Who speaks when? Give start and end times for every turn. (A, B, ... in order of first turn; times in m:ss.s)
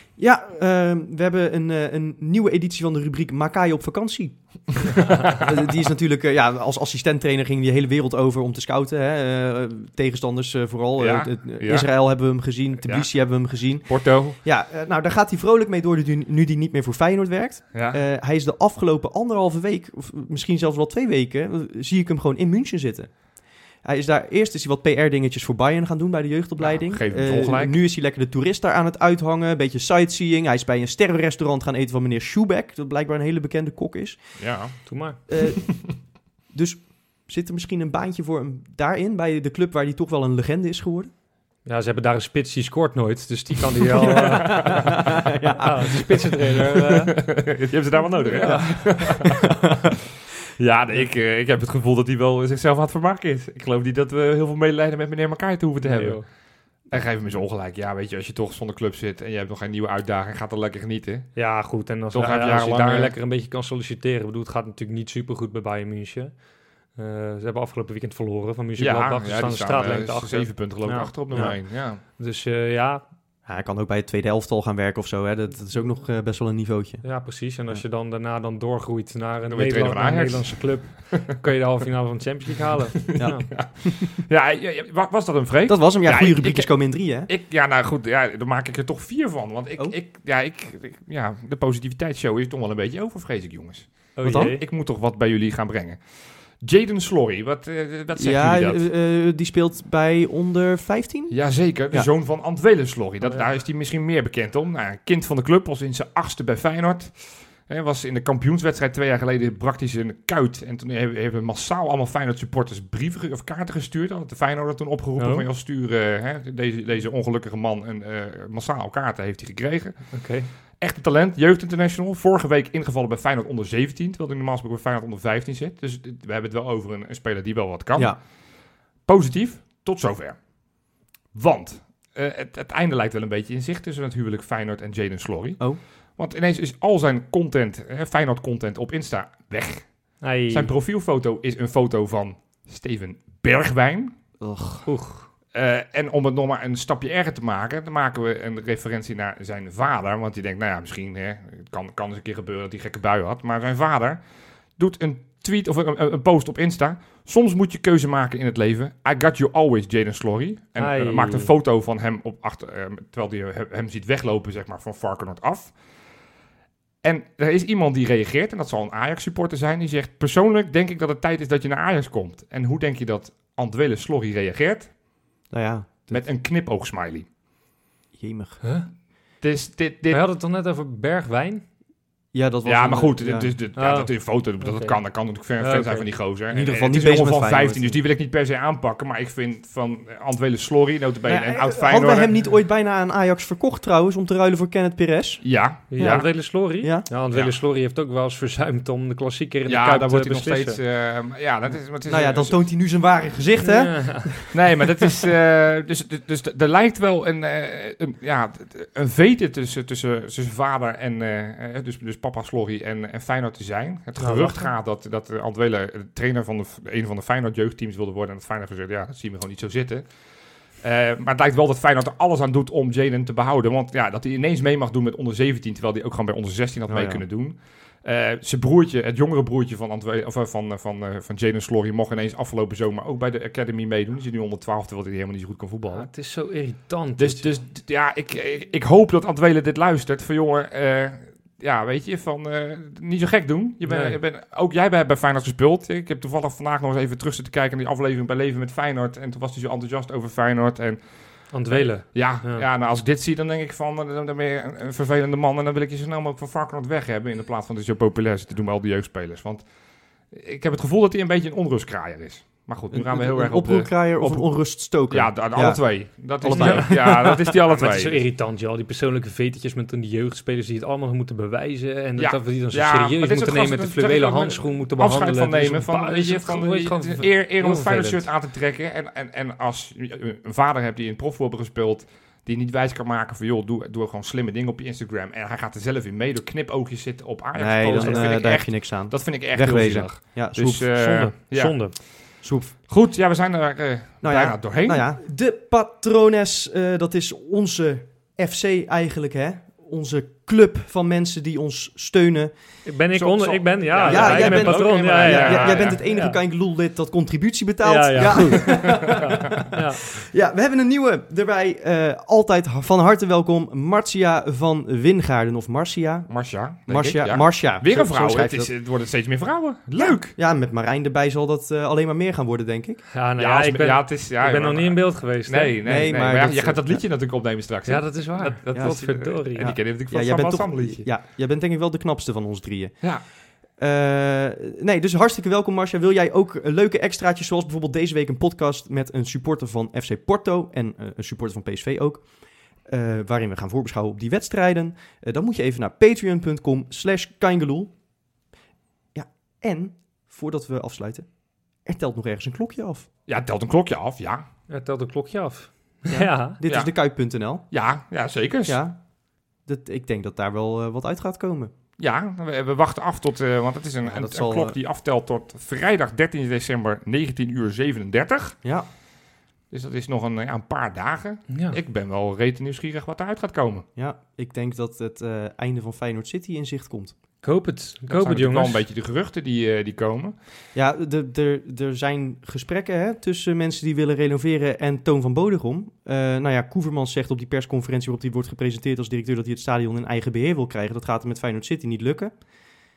0:00.2-0:23.1 A
0:11.0-0:14.4 B
0:17.7-0:18.0 B
0:23.8-0:34.5 A
0:26.6-0:27.8 B
0:34.4-0:35.4 B
0:34.9-0:35.2 C
0:35.3-0:35.8 A
0:36.5-0:41.1 A
0:41.6-0:47.1 C
0:44.1-0:46.2 A
0:47.1-0:49.5 B
0:48.2-0:49.0 C
0:50.6-0:56.3 B
0:55.8-0:56.2 C
0:56.9-1:01.4 B
1:01.4-1:06.4 C
1:02.1-1:03.1 B
1:07.0-1:13.0 C
1:08.8-1:12.0 B
1:13.5-1:17.0 A
1:17.0-1:23.5 C
1:19.5-1:21.2 B
1:23.1-1:36.0 B
1:23.1-1:24.1 A
1:25.7-1:27.3 A
1:34.2-1:34.6 C
1:34.2-1:34.6 A
1:36.6-1:38.9 B
1:38.2-1:41.4 A
1:41.3-2:00.2 B
1:55.2-1:55.5 C
2:00.1-2:00.5 C
2:00.8-2:08.3 B
2:09.0-2:10.4 B
2:11.3-2:24.2 B
2:20.2-2:20.7 C
2:24.4-2:24.8 A
2:24.9-2:25.3 C
2:25.5-2:34.2 B
2:34.8-2:45.8 B
2:40.8-2:41.5 C
2:47.0-2:54.9 B
2:55.5-2:56.2 A
2:56.1-2:57.3 B
2:58.2-2:58.6 A
2:58.6-2:58.9 C
2:59.4-3:00.2 B
3:00.1-3:01.6 C
3:02.3-3:03.5 A
3:02.7-3:12.4 B
3:03.8-3:05.0 C
3:05.6-3:06.1 C
3:06.5-3:08.0 A
3:11.3-3:17.1 A
3:15.4-3:16.5 B
3:15.9-3:20.8 C
3:19.7-3:22.6 B
3:22.1-3:24.5 A
3:23.6-3:24.4 C
3:24.5-3:40.1 B
3:34.2-3:34.7 C
3:40.8-3:56.1 B
3:46.9-3:47.2 A
3:55.9-3:57.5 C
3:57.2-4:19.6 B
4:03.9-4:04.2 C
4:11.5-4:12.7 C
4:20.3-4:28.2 B
4:22.9-4:25.8 A
4:26.4-4:27.6 A
4:26.5-4:27.0 C
4:27.6-4:38.2 C
4:32.2-4:55.1 B
4:47.6-4:51.0 A
4:48.0-4:48.3 C
4:50.9-4:52.0 C
4:52.4-4:52.8 A
4:54.2-5:02.5 A
5:02.9-5:06.4 C
5:03.2-5:06.0 B
5:04.0-5:16.3 A
5:07.8-5:10.0 C
5:08.2-5:09.6 B
5:16.3-5:20.4 B
5:16.9-5:18.7 A
5:20.0-5:23.0 A
5:23.1-5:25.8 C
5:23.4-5:31.1 B
5:25.8-5:27.0 A
5:27.9-5:29.7 C
5:28.7-5:29.0 A
5:29.6-5:33.0 A
5:33.8-5:42.3 A
5:42.9-5:47.9 A
5:49.1-5:51.3 A
5:51.8-5:53.1 A
5:53.3-5:54.5 B
5:54.7-5:56.6 C
5:56.1-5:57.6 A
5:57.7-5:58.8 B
5:58.7-5:59.0 A
5:59.7-6:01.7 A
6:02.0-6:08.6 B
6:04.0-6:04.8 A
6:09.7-6:13.8 B
6:11.5-6:11.8 C
6:14.0-6:17.1 A
6:17.4-6:18.8 C
6:18.1-6:20.3 B
6:20.8-6:32.3 A